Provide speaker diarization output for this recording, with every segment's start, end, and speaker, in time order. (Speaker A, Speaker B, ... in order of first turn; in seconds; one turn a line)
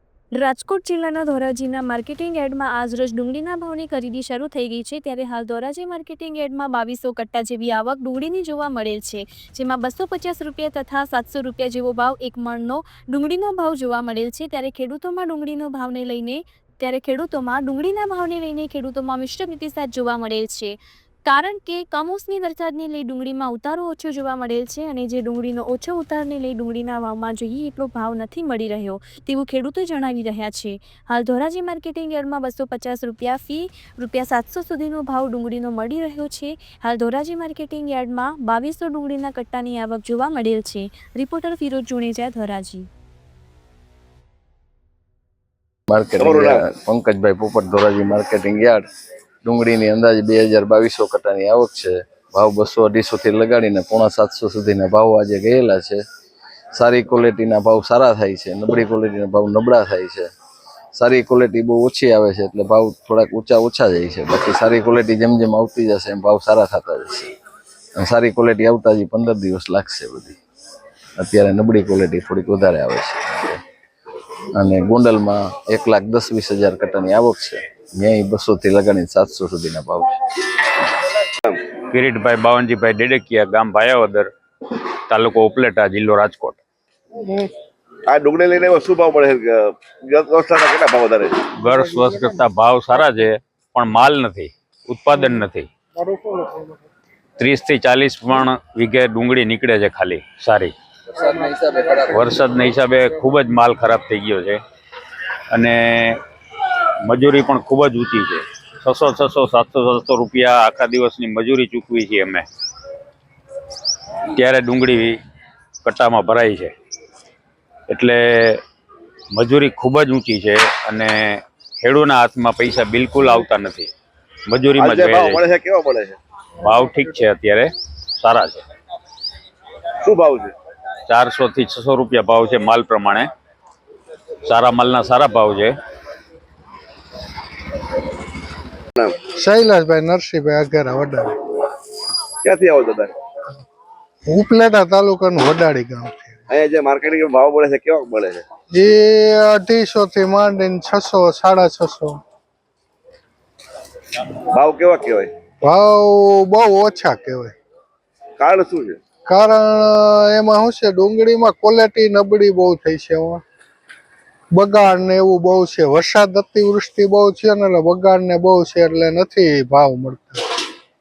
Speaker A: 0.3-20.7
Speaker A: 21.3-42.9
Speaker B: 45.9-48.9
Speaker C: 46.2-46.6
Speaker B: 49.4-56.0
Speaker B: 56.7-60.3
Speaker B: 60.9-67.3
Speaker B: 68.0-70.4
Speaker B: 71.2-73.6
Speaker B: 74.5-80.4
Speaker D: 81.8-84.3
Speaker D: 85.1-86.6
Speaker C: 88.1-91.5
Speaker D: 91.5-95.7
Speaker E: 96.0-96.8
Speaker D: 97.4-100.7
Speaker B: 101.3-102.0
Speaker D: 102.0-104.6
Speaker D: 105.5-106.2
Speaker D: 107.0-112.5
Speaker D: 114.3-115.2
Speaker D: 115.8-116.7
Speaker D: 117.9-118.6
Speaker D: 119.3-123.9
Speaker D: 124.5-125.4
Speaker C: 124.8-126.2
Speaker D: 126.6-128.6
Speaker C: 130.0-130.5
Speaker D: 131.1-133.3
Speaker D: 134.4-135.7
Speaker E: 139.2-141.4
Speaker C: 142.4-143.1
Speaker E: 144.3-146.4
Speaker C: 146.5-148.4
Speaker E: 148.7-152.2
Speaker C: 154.4-155.3
Speaker E: 155.6-157.6
Speaker C: 158.4-159.0
Speaker E: 159.3-163.4
Speaker E: 164.5-170.4